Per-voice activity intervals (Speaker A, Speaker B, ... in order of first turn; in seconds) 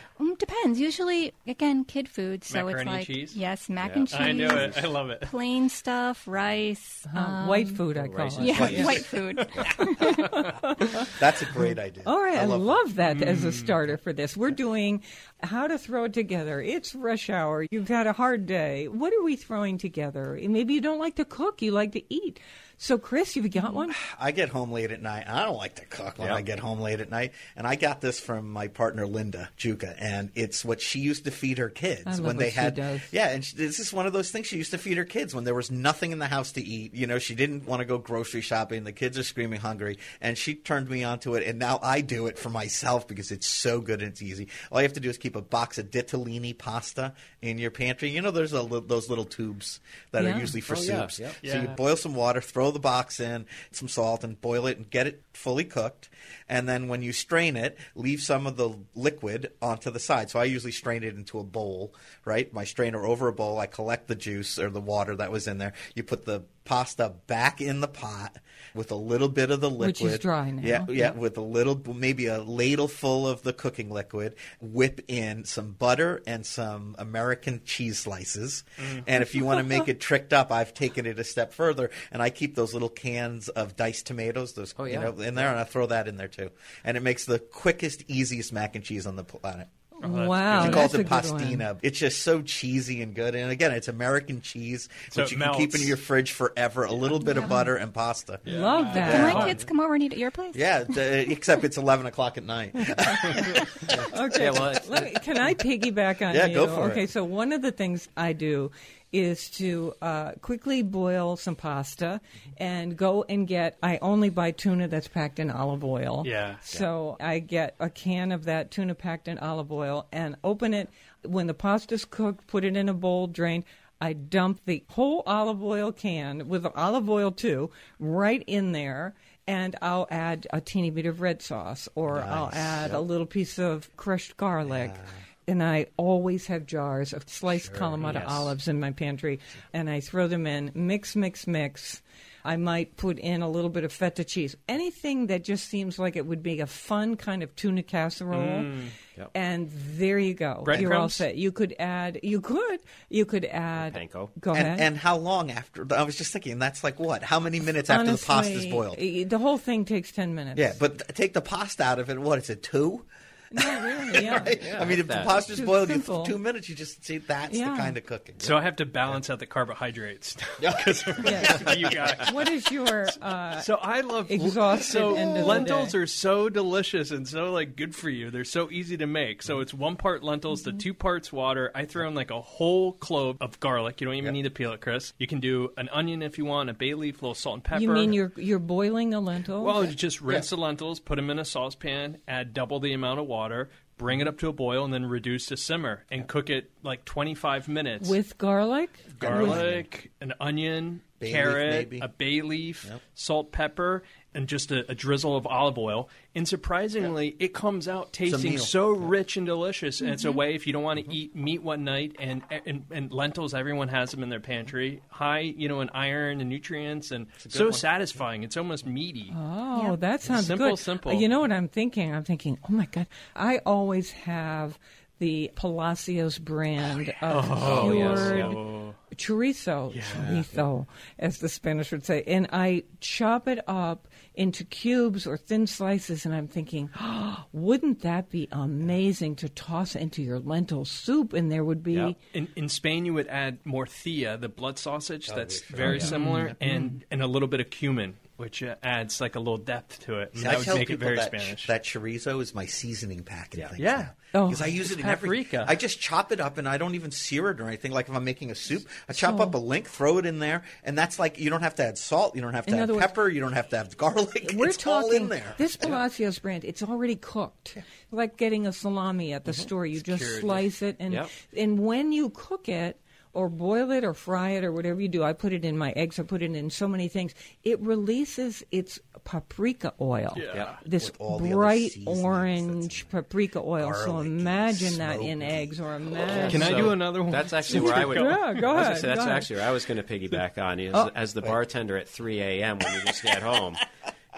Speaker A: 0.2-7.8, 8.4-10.6, 97.2-97.6, 99.0-100.7, 210.0-210.4
Speaker B: 2.5-3.4, 4.1-5.3, 13.1-13.8, 51.4-51.8, 90.0-90.9, 95.1-96.0, 98.5-99.7, 116.2-116.6, 148.3-148.9, 150.7-151.2, 168.4-172.5, 173.6-188.2, 189.6-198.2, 199.2-219.3, 220.3-221.3, 227.3-229.0, 229.9-230.3, 242.3-251.7, 253.8-254.1, 254.7-255.8, 269.9-270.7, 280.4-280.8, 286.4-288.9
Speaker C: 3.8-4.7, 7.9-9.7, 26.2-26.4, 50.7-51.4, 84.8-85.6, 104.3-105.2, 138.0-138.6, 153.8-154.4, 164.5-165.5, 227.6-228.6, 241.9-242.2, 245.8-246.2, 271.1-271.3, 280.5-280.8, 286.3-293.9
Speaker D: 7.1-11.1, 12.0-23.9, 32.0-33.1, 50.2-50.5, 69.8-71.2, 90.0-91.7, 97.3-97.6, 98.5-99.6, 103.2-148.7, 149.3-154.9, 157.9-160.8, 163.5-164.6, 165.3-166.4, 167.5-168.0, 171.2-171.7, 172.2-173.7, 174.3-175.9, 187.7-189.9, 198.0-199.6, 219.3-242.2, 245.8-246.9, 254.3-254.7, 259.1-259.6, 262.7-263.1, 264.4-287.0, 287.7-289.5
Speaker E: 8.6-9.1, 11.0-12.8, 23.9-89.7, 90.5-98.5, 99.0-99.5, 100.5-104.8, 106.3-107.1, 132.1-133.0, 134.7-135.1, 137.5-138.0, 154.5-159.0, 160.6-168.5, 170.6-172.2, 175.1-175.7, 199.2-199.9, 201.2-202.1, 208.3-209.1, 217.4-217.9, 230.1-230.5, 245.3-246.6, 250.4-266.0, 280.9-283.1, 283.8-286.9